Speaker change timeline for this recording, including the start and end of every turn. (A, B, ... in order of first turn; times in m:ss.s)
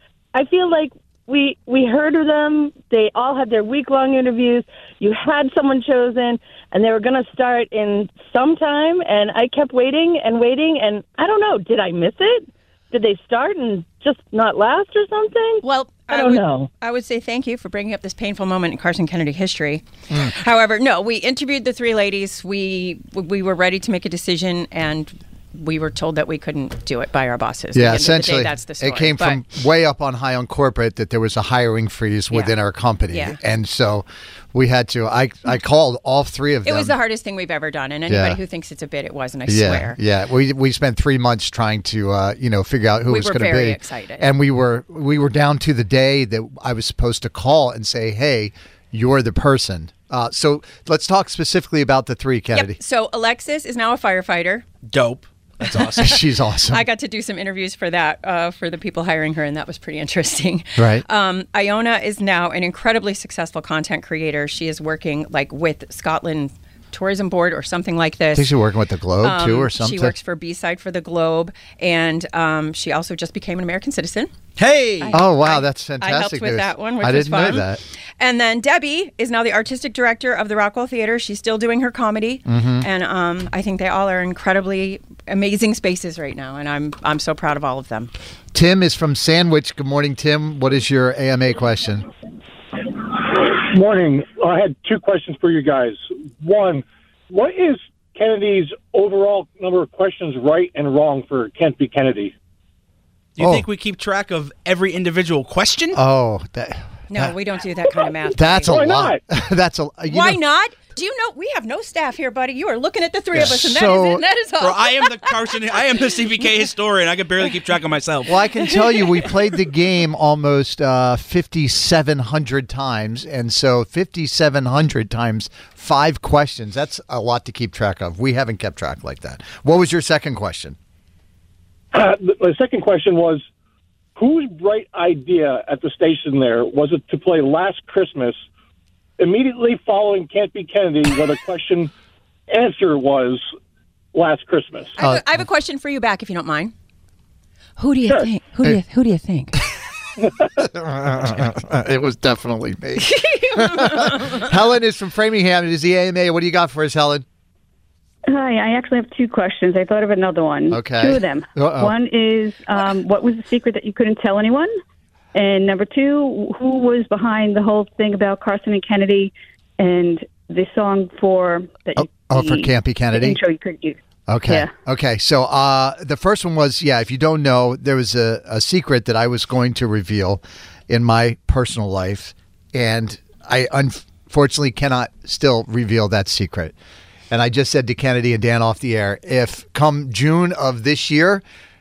0:00.3-0:16.7 A
0:15.6-0:29.4 B
0:27.7-0:37.0 C
0:33.1-0:33.4 B
0:36.7-0:40.0 B
0:38.1-0:38.4 C
0:39.4-0:52.8 C
0:43.1-0:44.3 B
0:52.6-0:54.7 B
0:54.9-0:56.2 D
0:55.7-0:56.8 C
0:56.6-1:08.6 B
1:00.8-1:01.0 C
1:08.3-1:10.2 C
1:09.2-1:14.3 B
1:14.6-1:15.2 D
1:15.0-1:28.1 B
1:15.1-1:17.8 C
1:22.5-1:22.9 C
1:28.5-1:32.0 C
1:33.1-1:42.3 E
1:43.4-1:46.0 D
1:43.4-1:43.7 C
1:45.9-1:47.4 C
1:47.1-1:49.0 B
1:48.3-1:50.4 C
1:48.7-1:49.2 E
1:50.1-1:55.4 B
1:53.3-1:54.2 C
1:54.6-1:58.3 D
1:58.3-2:10.8 C
1:58.9-1:59.3 B
2:11.9-2:13.4 E
2:14.2-2:18.4 E
2:19.2-2:21.9 E
2:22.5-2:23.4 E
2:24.1-2:24.9 E
2:25.0-2:26.7 B
2:27.8-2:29.6 B
2:30.6-2:37.2 C
2:33.0-2:34.5 B
2:38.3-2:44.7 F
2:40.7-2:41.9 C
2:45.3-2:54.7 F
2:52.0-2:53.4 C
2:54.3-3:06.8 C
3:07.3-3:11.4 C